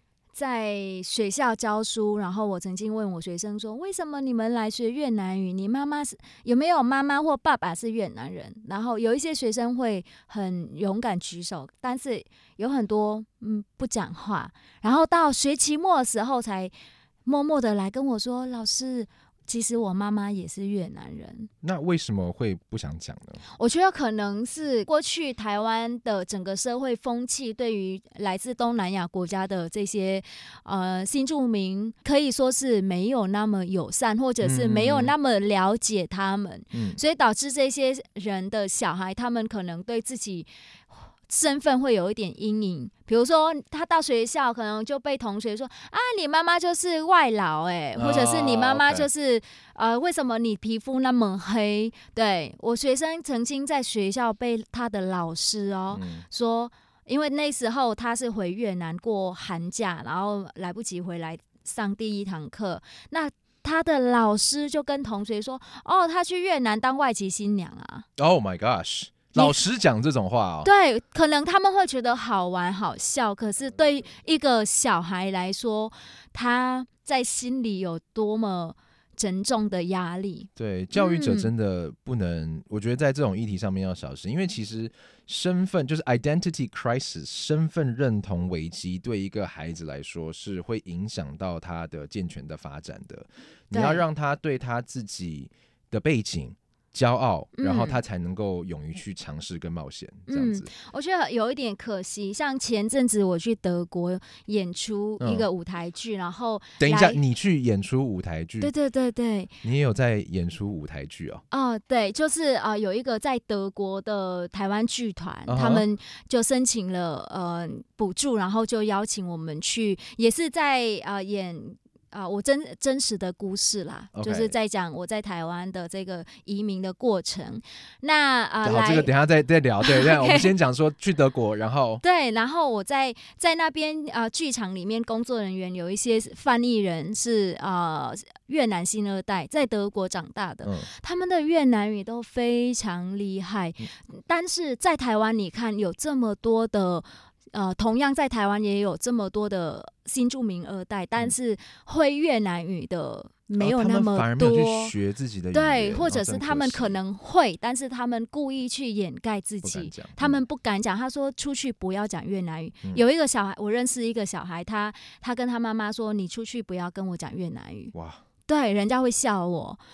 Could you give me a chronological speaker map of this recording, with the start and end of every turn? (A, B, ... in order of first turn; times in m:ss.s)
0:00.4-0:16.7 A
0:17.2-0:21.5 A
0:21.6-0:23.4 B
0:23.6-0:40.5 A
0:34.4-0:35.2 B
0:36.7-0:37.0 B
0:41.3-1:08.1 A
0:48.0-0:49.1 B
0:55.9-0:56.3 B
1:08.2-1:10.7 B
1:09.3-1:09.6 A
1:10.6-1:21.5 A
1:20.6-1:40.7 B
1:33.7-1:34.0 A
1:37.6-1:38.0 A
1:40.3-1:47.2 A
1:45.2-1:45.5 B
1:46.8-1:48.7 B
1:48.6-1:49.5 A
1:49.6-1:51.4 B
1:51.5-2:09.1 A
1:55.5-1:55.9 B
2:04.1-2:04.5 B
2:08.6-2:12.0 B
2:09.8-2:10.5 A
2:12.0-2:34.9 A
2:33.6-2:37.0 B
2:35.5-2:47.9 A
2:39.6-2:40.4 B
2:47.9-2:48.2 B
2:48.5-2:49.8 A